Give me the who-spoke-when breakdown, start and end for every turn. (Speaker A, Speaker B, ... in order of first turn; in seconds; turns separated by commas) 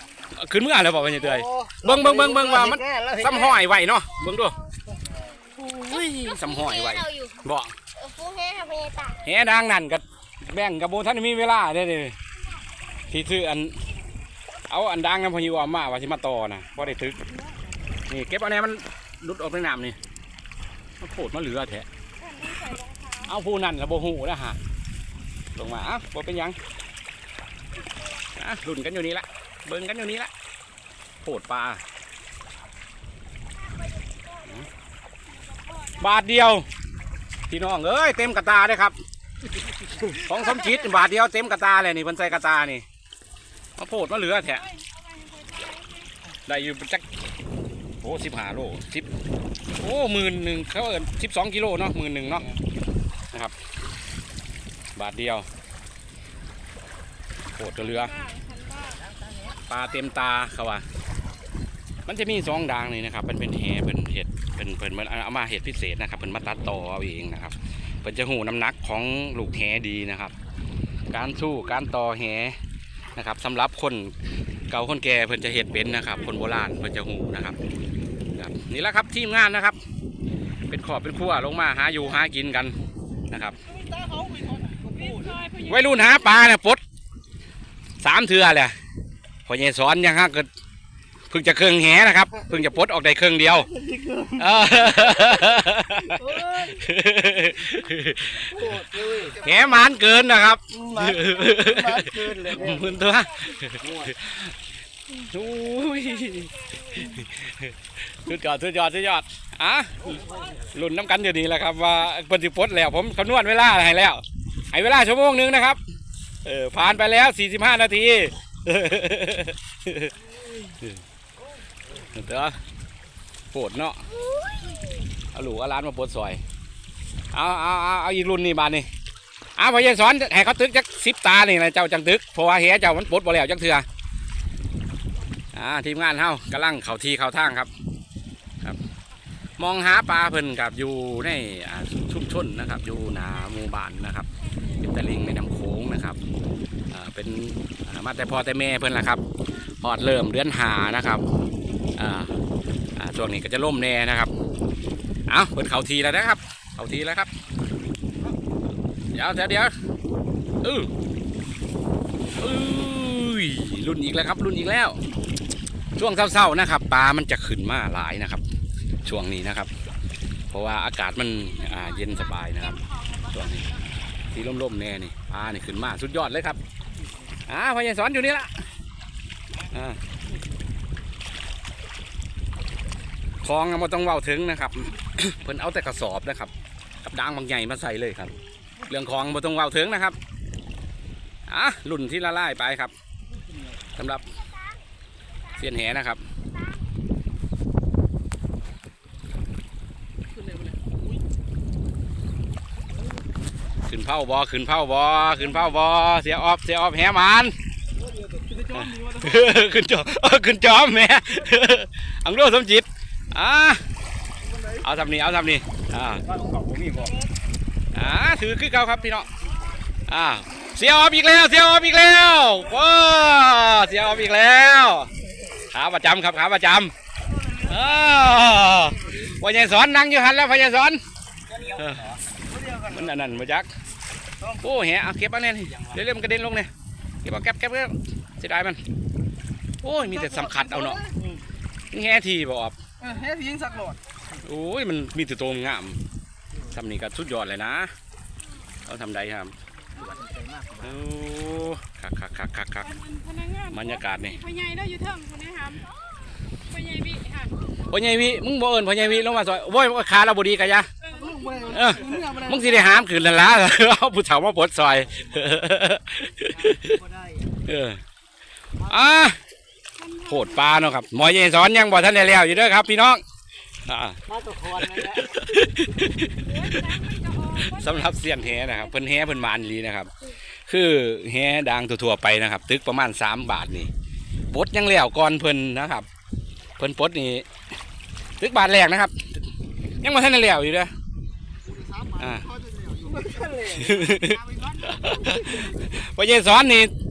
Speaker A: 0.3-4.6, Speaker B: 1.2-3.6, Speaker C: 4.0-9.3, Speaker B: 4.9-5.2, Speaker A: 5.5-7.7, Speaker A: 9.2-12.2, Speaker A: 13.1-13.8, Speaker A: 14.7-17.2, Speaker D: 17.2-17.8, Speaker A: 18.1-20.0, Speaker A: 21.0-21.9, Speaker D: 22.2-23.3, Speaker A: 23.2-24.6, Speaker A: 25.5-26.6, Speaker A: 28.4-30.3, Speaker A: 31.2-31.8, Speaker D: 33.5-34.7, Speaker D: 35.2-36.2, Speaker A: 36.0-36.7, Speaker A: 37.5-39.0, Speaker A: 40.1-42.8, Speaker A: 43.8-44.6, Speaker D: 44.4-46.1, Speaker A: 46.5-47.0, Speaker A: 48.0-49.1, Speaker A: 49.8-52.5, Speaker A: 54.9-55.5, Speaker A: 57.5-58.1, Speaker D: 57.7-59.0, Speaker B: 59.0-59.6, Speaker A: 59.7-60.8, Speaker A: 62.0-70.3, Speaker A: 71.1-72.6, Speaker A: 73.2-74.1, Speaker A: 74.7-77.6, Speaker D: 75.9-76.3, Speaker A: 78.3-79.8, Speaker A: 80.7-82.8, Speaker A: 83.3-83.5, Speaker B: 84.1-85.0, Speaker D: 84.8-86.4, Speaker A: 85.7-86.8, Speaker A: 88.0-88.7, Speaker A: 89.5-90.5, Speaker A: 91.3-93.7, Speaker B: 93.6-96.8, Speaker A: 94.3-98.7, Speaker B: 98.4-99.5, Speaker A: 99.3-104.5, Speaker B: 100.7-103.0, Speaker D: 103.0-104.0, Speaker B: 103.8-104.1, Speaker A: 105.2-115.8, Speaker D: 105.4-107.2, Speaker B: 110.0-110.6, Speaker D: 110.2-110.5, Speaker A: 116.4-120.1, Speaker A: 122.1-122.6, Speaker A: 123.5-124.0, Speaker C: 124.1-124.8, Speaker A: 125.3-126.4, Speaker A: 127.3-128.9, Speaker A: 129.6-133.8, Speaker A: 135.5-137.7, Speaker A: 139.6-144.3, Speaker D: 144.4-145.7, Speaker A: 144.8-146.2, Speaker A: 146.9-149.2, Speaker A: 149.8-151.2, Speaker A: 152.0-152.4, Speaker A: 152.9-154.3, Speaker A: 155.3-157.3, Speaker A: 159.1-159.7, Speaker A: 160.6-160.9, Speaker A: 162.4-165.0, Speaker A: 165.9-168.4, Speaker A: 169.0-169.7, Speaker A: 170.5-172.8, Speaker D: 171.4-173.9, Speaker A: 173.3-173.7, Speaker A: 174.3-176.6, Speaker A: 177.5-178.5, Speaker A: 179.7-180.0, Speaker A: 183.4-186.5, Speaker A: 187.0-188.3, Speaker A: 188.9-190.2, Speaker A: 191.5-192.9, Speaker A: 193.9-194.3, Speaker C: 194.2-194.8, Speaker A: 195.6-196.2, Speaker C: 196.5-196.8, Speaker A: 203.8-207.5, Speaker B: 208.2-208.9, Speaker A: 208.7-213.8, Speaker A: 214.8-216.2, Speaker B: 216.2-217.3, Speaker A: 217.9-219.3, Speaker A: 220.1-225.1, Speaker A: 225.7-226.9, Speaker B: 227.2-228.8, Speaker A: 227.6-231.0, Speaker B: 231.5-233.2, Speaker A: 231.7-232.1, Speaker A: 232.9-233.7, Speaker A: 234.6-236.7, Speaker A: 237.2-238.8, Speaker A: 239.8-241.0, Speaker B: 240.4-241.4, Speaker A: 241.9-242.8, Speaker B: 243.1-243.8, Speaker A: 244.4-246.0, Speaker A: 246.7-247.9, Speaker A: 248.8-249.5, Speaker B: 249.9-250.9, Speaker A: 250.8-252.9, Speaker D: 252.8-255.9, Speaker A: 253.7-254.4, Speaker D: 256.6-257.6, Speaker A: 257.9-260.9, Speaker D: 261.0-262.3, Speaker B: 261.2-262.9, Speaker A: 261.7-267.0, Speaker B: 266.5-267.6, Speaker A: 267.7-268.0, Speaker B: 268.8-269.2, Speaker A: 268.9-269.4, Speaker D: 269.9-270.8, Speaker A: 270.3-273.2, Speaker A: 273.9-274.2, Speaker B: 274.3-275.5, Speaker A: 274.8-276.9, Speaker D: 276.3-279.5, Speaker A: 277.6-280.1, Speaker A: 280.6-283.9, Speaker A: 284.5-286.1, Speaker A: 286.8-287.5, Speaker A: 288.4-289.3, Speaker A: 290.0-290.9, Speaker B: 291.7-294.4, Speaker A: 292.2-292.5, Speaker A: 293.8-296.9